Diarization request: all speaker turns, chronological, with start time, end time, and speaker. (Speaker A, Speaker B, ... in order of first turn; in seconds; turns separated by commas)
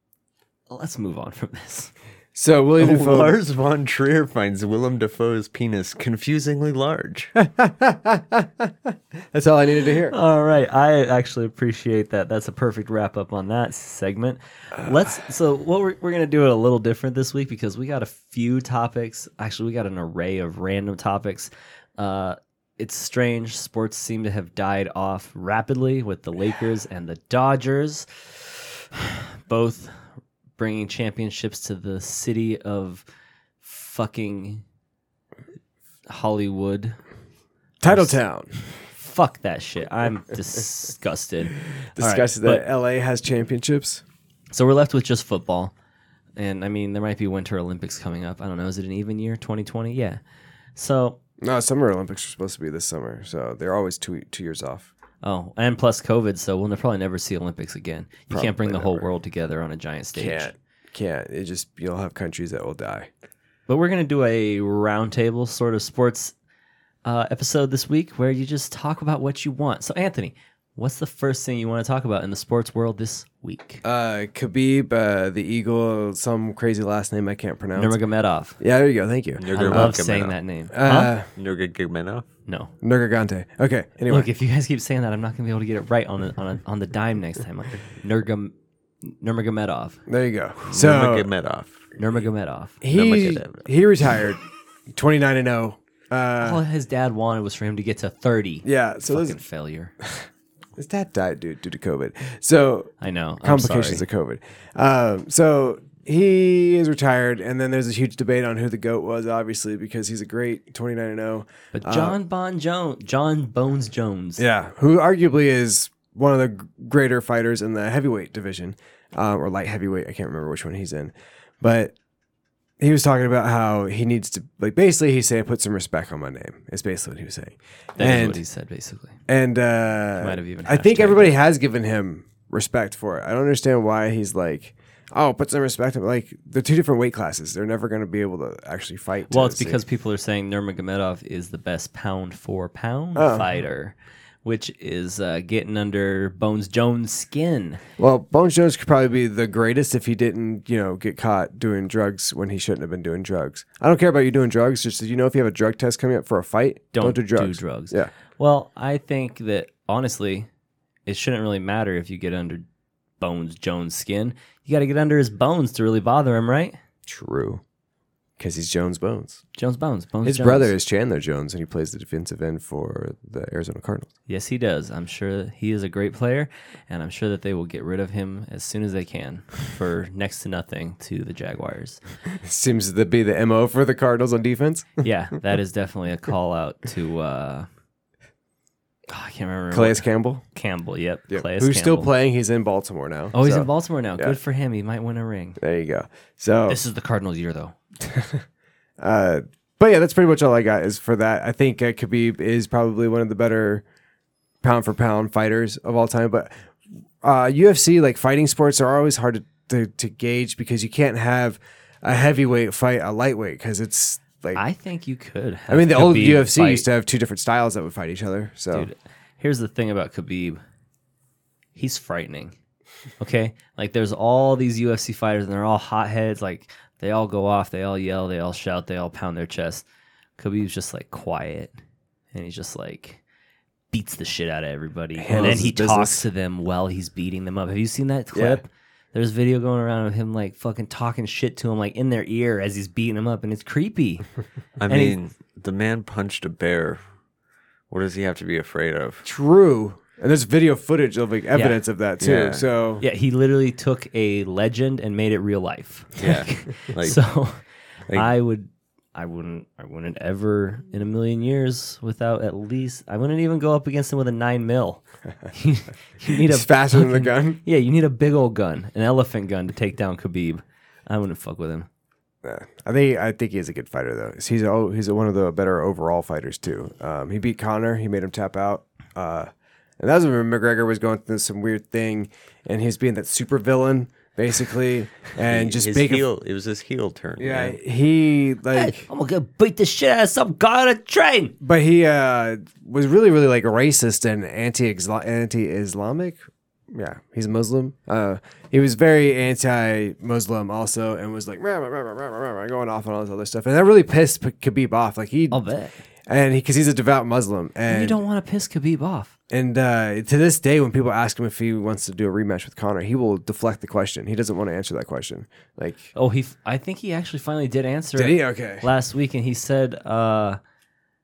Speaker A: 0.7-1.9, Speaker B: 2.3-3.4, Speaker C: 2.8-7.4, Speaker B: 7.4-10.1, Speaker A: 10.1-28.3, Speaker A: 28.9-29.9, Speaker A: 30.6-33.0, Speaker A: 33.6-34.6, Speaker A: 36.1-37.0, Speaker B: 37.8-38.6, Speaker A: 37.9-38.2, Speaker A: 38.9-42.6, Speaker B: 42.0-44.0, Speaker A: 44.5-45.7, Speaker A: 46.4-50.2, Speaker A: 50.8-51.2, Speaker B: 51.4-54.9, Speaker A: 55.2-60.5, Speaker B: 58.3-59.0, Speaker B: 60.1-63.1, Speaker A: 63.7-66.3, Speaker A: 67.0-73.8, Speaker B: 73.8-78.0, Speaker A: 77.7-78.6, Speaker B: 78.6-79.9, Speaker C: 79.4-80.4, Speaker A: 79.5-81.1, Speaker B: 80.7-81.3, Speaker C: 81.3-82.3, Speaker A: 82.5-82.7, Speaker B: 82.8-84.3, Speaker A: 84.1-88.5, Speaker A: 89.0-90.0, Speaker B: 90.1-91.3, Speaker C: 90.7-92.1, Speaker A: 92.0-92.8, Speaker B: 92.8-96.6, Speaker C: 92.8-93.7, Speaker A: 96.4-99.9, Speaker B: 98.6-99.4, Speaker B: 100.0-112.2, Speaker A: 103.0-104.0, Speaker A: 111.7-114.4, Speaker B: 114.4-121.9, Speaker B: 122.8-128.4, Speaker A: 128.0-129.2, Speaker B: 129.3-139.8, Speaker A: 130.2-131.4, Speaker A: 139.3-147.8, Speaker B: 143.1-143.5, Speaker B: 148.0-158.1, Speaker A: 156.9-160.5, Speaker A: 161.1-162.7, Speaker A: 163.2-166.8, Speaker B: 167.1-167.6, Speaker B: 168.4-169.4, Speaker A: 169.6-170.7, Speaker B: 170.2-174.1, Speaker A: 174.3-182.0, Speaker B: 182.3-185.0, Speaker A: 185.0-187.7, Speaker A: 189.1-192.1, Speaker B: 189.7-190.4, Speaker B: 191.3-194.4, Speaker A: 193.3-195.6, Speaker B: 195.6-196.8, Speaker A: 196.7-197.8, Speaker B: 198.0-198.4, Speaker B: 199.0-203.8, Speaker B: 204.6-206.7, Speaker B: 207.2-214.6, Speaker A: 214.5-216.8, Speaker B: 215.7-218.9, Speaker A: 218.7-220.6, Speaker A: 221.7-222.6, Speaker A: 223.2-229.8, Speaker A: 230.4-231.7, Speaker A: 232.3-233.2, Speaker A: 233.9-244.2, Speaker B: 235.2-236.2, Speaker B: 238.3-238.6, Speaker C: 244.8-247.0, Speaker A: 244.9-245.2, Speaker C: 247.9-249.2, Speaker B: 249.2-253.0, Speaker A: 251.5-251.8, Speaker C: 252.2-252.7, Speaker A: 253.0-257.6, Speaker C: 256.2-257.2, Speaker A: 258.1-271.9, Speaker B: 266.3-267.6, Speaker B: 272.4-286.2, Speaker C: 285.4-287.8, Speaker B: 287.4-289.1, Speaker A: 288.7-291.6, Speaker B: 291.6-296.4, Speaker B: 296.9-305.7, Speaker A: 305.5-306.0, Speaker B: 306.3-308.2, Speaker A: 307.9-309.3, Speaker B: 309.5-316.1, Speaker A: 316.1-320.6, Speaker B: 318.1-318.9